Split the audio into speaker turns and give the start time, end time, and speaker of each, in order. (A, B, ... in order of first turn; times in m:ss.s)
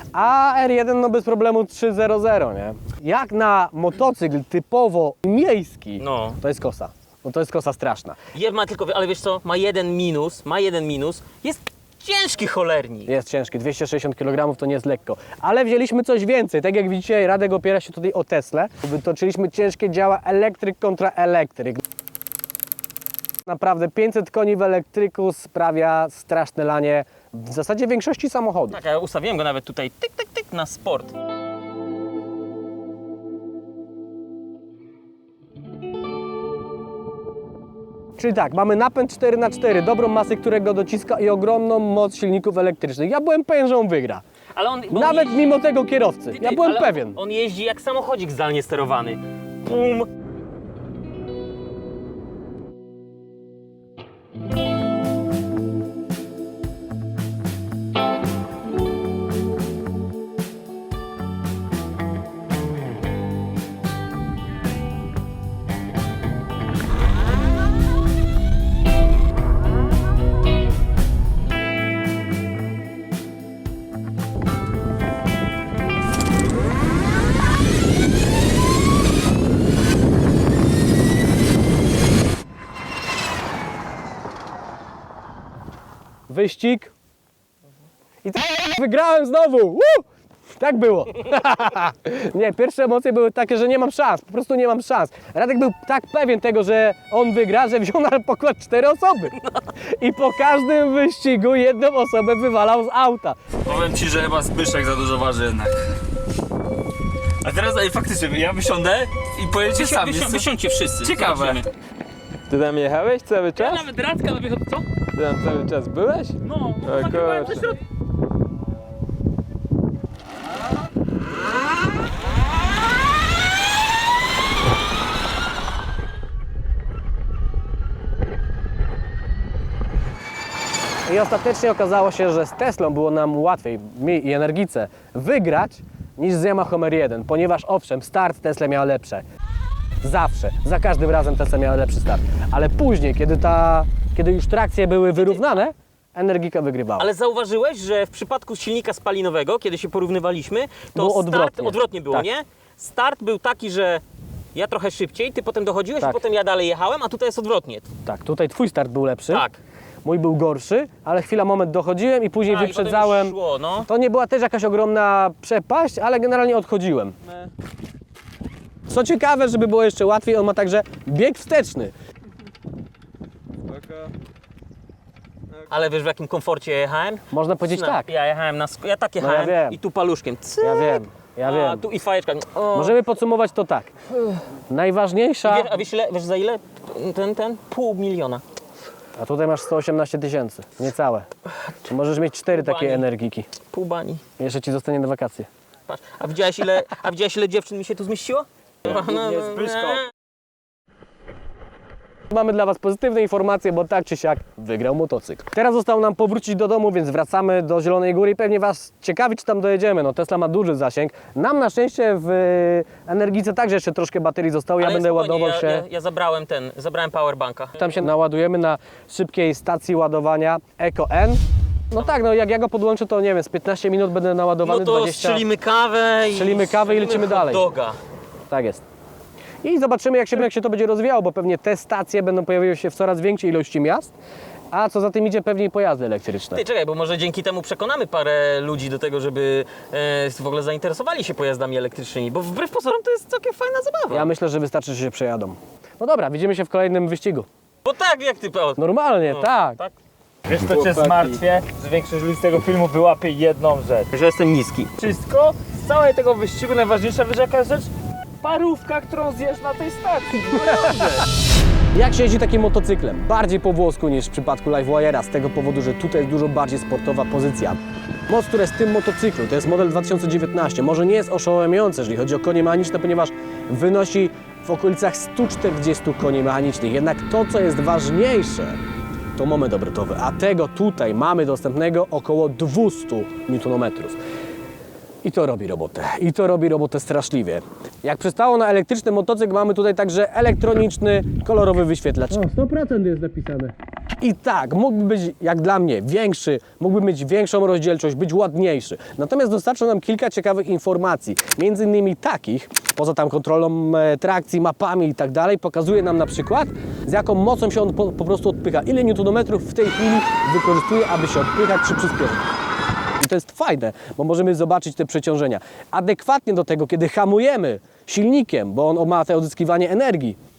0:00.1-0:08.2 A
0:06.0-0:06.4 B
0:08.3-0:13.1 B
0:13.1-0:21.8 A
0:23.4-0:28.8 A
0:28.7-0:31.1 B
0:38.2-0:44.2 A
0:44.5-0:45.6 B
0:44.9-0:47.2 A
0:46.3-0:50.1 B
1:26.3-1:26.9 A
1:28.2-1:30.0 A
1:30.6-1:43.4 A
1:43.6-1:45.8 C
1:47.4-1:50.5 C
1:49.6-1:51.7 B
1:51.0-1:51.6 C
1:52.5-1:53.9 D
1:53.6-1:54.8 B
1:55.2-1:57.7 D
1:56.4-1:57.8 B
2:11.0-2:19.2 A
2:20.0-2:27.1 A
2:25.1-2:25.6 B
2:27.0-2:34.0 B
2:30.9-2:32.3 A
2:34.5-2:37.9 B
2:38.0-2:39.4 A
2:39.3-2:39.6 B
2:40.0-2:43.4 A
2:42.4-2:43.9 B
2:43.9-2:47.1 A
2:48.9-2:51.9 A
2:53.8-2:54.1 D
2:55.7-3:03.0 B
2:57.3-2:58.1 A
2:59.2-2:59.8 A
3:00.6-3:01.8 A
3:02.7-3:03.9 A
3:04.7-3:05.7 A
3:05.4-3:08.4 B
3:09.2-3:11.2 A
3:11.8-3:13.5 A
3:12.5-3:13.1 B
3:13.7-3:14.2 B
3:14.4-3:15.5 A
3:15.9-3:20.1 B
3:22.3-3:35.8 A
3:34.8-3:38.0 B
3:37.8-3:45.4 A
3:44.6-3:48.0 B
3:46.3-3:47.7 A
3:48.5-3:48.8 A
3:49.6-3:54.1 A
3:54.7-3:56.6 A
3:56.5-4:04.3 B
4:04.1-4:07.5 A
4:07.8-4:09.9 B
4:08.8-4:09.8 A
4:10.5-4:17.9 B
4:10.6-4:11.4 C
4:10.8-4:11.4 D
4:18.4-4:21.3 B
4:20.6-4:21.1 A
4:21.9-4:38.8 A
4:39.4-4:44.2 A
4:45.2-5:12.4 A
5:13.2-5:20.4 A